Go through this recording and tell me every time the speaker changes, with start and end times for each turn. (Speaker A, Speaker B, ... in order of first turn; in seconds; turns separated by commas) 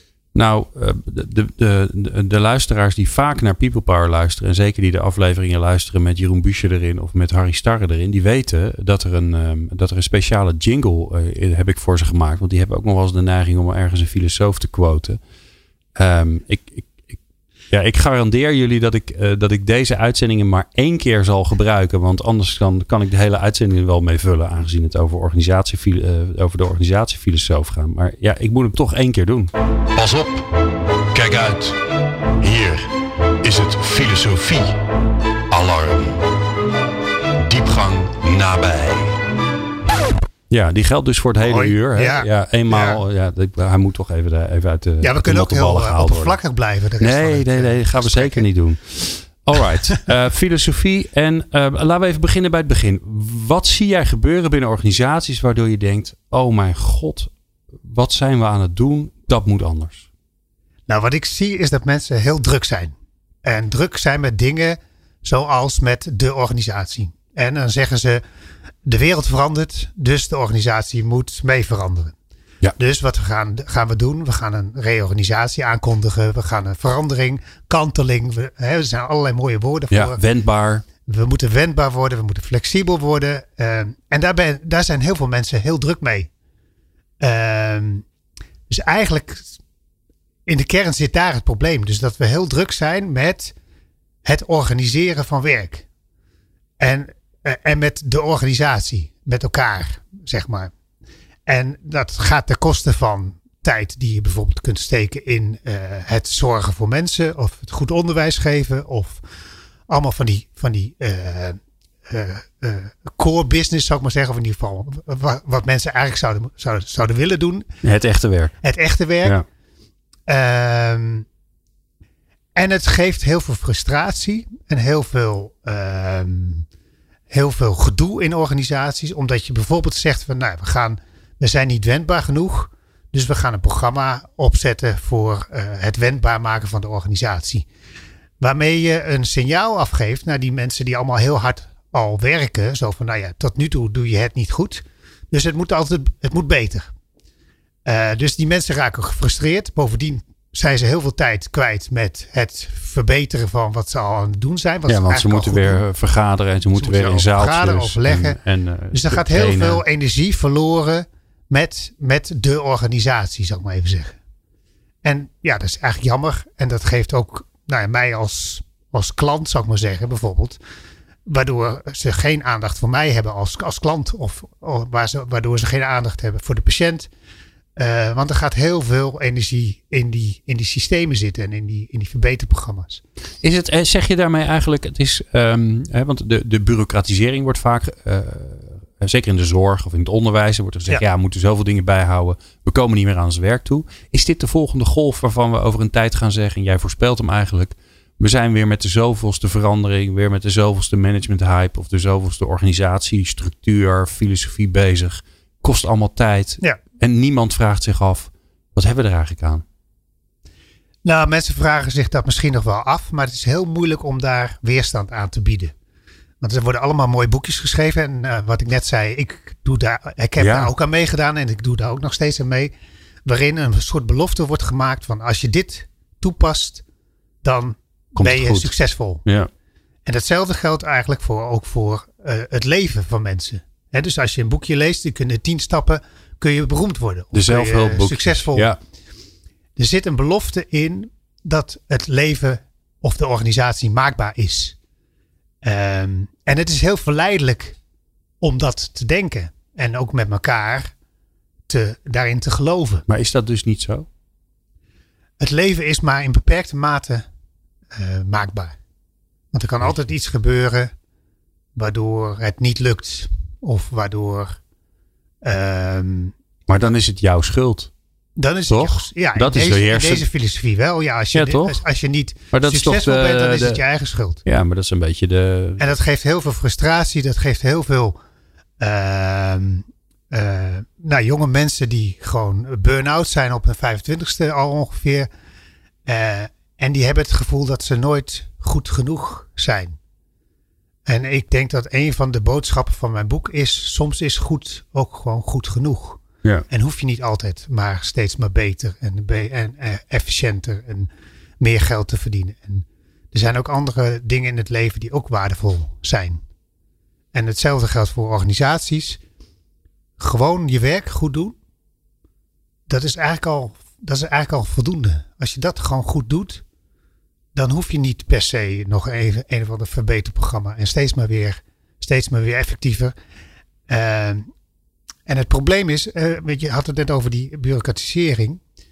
Speaker A: 0.3-15.2, Speaker A: 15.9-17.2, Speaker A: 17.7-29.5, Speaker B: 29.9-30.4, Speaker B: 31.1-31.8, Speaker B: 32.4-32.9, Speaker B: 33.4-34.8, Speaker B: 35.5-36.2, Speaker B: 37.4-39.1, Speaker A: 40.5-46.4, Speaker C: 41.4-43.0, Speaker C: 45.0-48.4, Speaker A: 47.0-57.3, Speaker A: 57.8-60.1, Speaker C: 60.9-68.2, Speaker C: 68.8-72.1, Speaker C: 72.8-80.2, Speaker A: 79.9-80.8, Speaker C: 81.0-86.3, Speaker C: 87.2-88.0, Speaker C: 88.7-89.6, Speaker C: 90.5-93.5, Speaker C: 94.2-95.8, Speaker C: 96.8-100.7, Speaker C: 101.5-109.2, Speaker C: 109.9-117.7, Speaker A: 117.8-118.5, Speaker C: 118.6-119.4, Speaker C: 120.3-121.2, Speaker C: 122.5-126.6, Speaker C: 127.3-137.7, Speaker C: 138.4-146.9, Speaker C: 147.8-155.8, Speaker A: 154.9-159.8, Speaker C: 156.7-158.4, Speaker C: 158.9-164.2, Speaker C: 165.0-170.6, Speaker C: 171.3-177.1, Speaker C: 177.8-183.0, Speaker A: 183.4-209.6, Speaker C: 211.0-215.7, Speaker C: 216.4-222.7, Speaker A: 220.4-220.7, Speaker C: 223.2-226.8, Speaker C: 227.4-229.2, Speaker A: 228.2-228.7, Speaker A: 229.2-229.5, Speaker C: 230.1-238.7, Speaker A: 237.3-238.8, Speaker C: 239.8-244.8, Speaker C: 245.6-247.8, Speaker C: 248.4-250.9, Speaker C: 251.7-253.0, Speaker A: 253.1-254.1, Speaker C: 255.4-257.2, Speaker C: 257.9-258.7, Speaker C: 259.5-260.9, Speaker C: 261.8-264.6, Speaker C: 265.4-266.3, Speaker A: 266.7-267.9, Speaker C: 268.4-274.4, Speaker A: 268.7-270.3, Speaker A: 271.3-271.8, Speaker A: 272.5-273.8, Speaker A: 274.4-275.9, Speaker C: 275.8-278.2, Speaker C: 278.8-285.3, Speaker C: 286.1-290.0, Speaker C: 291.1-306.4, Speaker C: 307.3-309.2, Speaker C: 310.2-311.6, Speaker C: 312.9-316.6, Speaker C: 317.5-323.1, Speaker C: 323.9-324.5, Speaker C: 325.3-328.6